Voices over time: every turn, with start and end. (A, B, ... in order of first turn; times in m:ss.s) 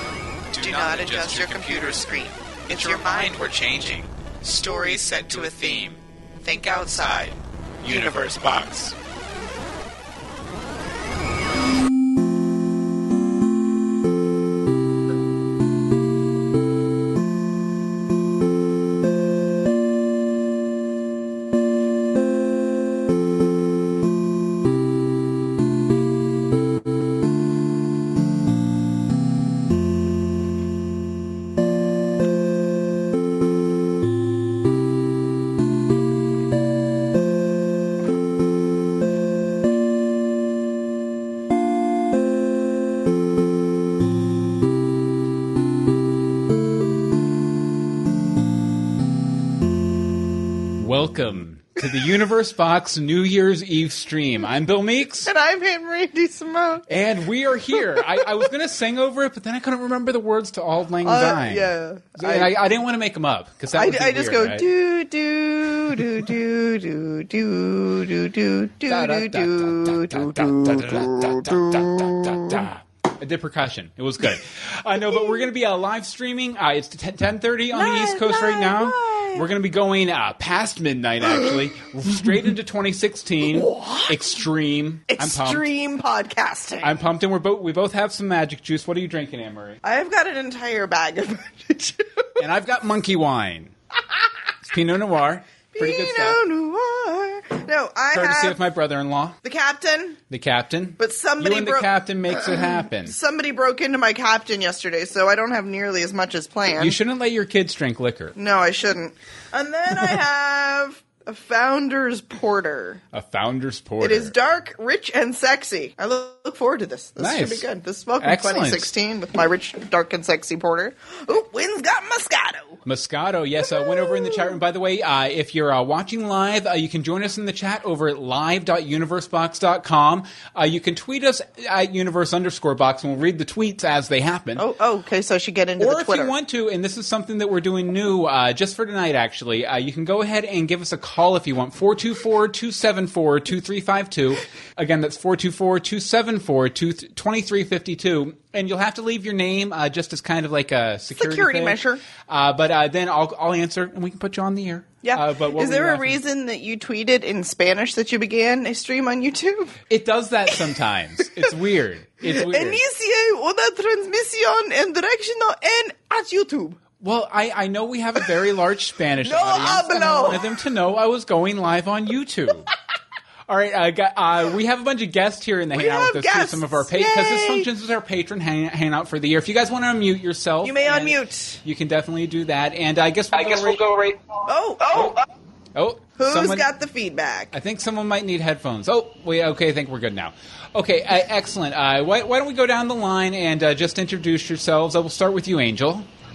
0:00.5-0:06.0 A
0:00.6-0:03.9 B
0:04.6-0:05.9 B
0:06.4-0:07.3 B
0:06.5-0:08.9 A
0:07.9-0:08.1 B
0:50.8-0:55.3 A
0:55.3-0:56.9 B
0:56.9-1:04.7 A
1:01.0-1:02.5 B
1:03.7-1:12.6 B
1:08.9-1:25.6 A
1:15.1-1:15.4 B
1:17.7-1:19.4 B
1:23.4-1:24.2 B
1:25.1-1:26.9 B
1:26.8-1:29.8 A
1:29.8-1:32.3 B
1:32.4-1:33.7 A
1:34.6-1:36.4 A
1:35.7-1:38.6 B
1:38.1-1:39.4 A
1:39.4-1:40.2 B
1:40.3-1:43.1 A
1:41.0-1:47.0 B
1:46.8-1:48.4 A
1:48.4-1:53.0 B
1:53.1-1:54.3 A
1:54.0-2:02.8 B
1:57.2-1:57.7 A
1:58.2-1:58.9 A
2:02.8-2:14.6 A
2:03.7-2:04.5 B
2:14.6-2:16.3 B
2:15.8-2:36.2 A
2:31.1-2:32.0 B
2:35.0-2:39.8 B
2:39.9-2:42.8 A
2:42.3-2:46.8 B
2:47.0-2:52.7 A
2:49.2-2:50.5 B
2:53.5-3:04.2 A
2:55.7-2:57.7 B
3:00.6-3:01.6 B
3:04.5-3:05.2 B
3:05.7-3:06.6 A
3:06.2-3:07.5 B
3:07.5-3:16.1 A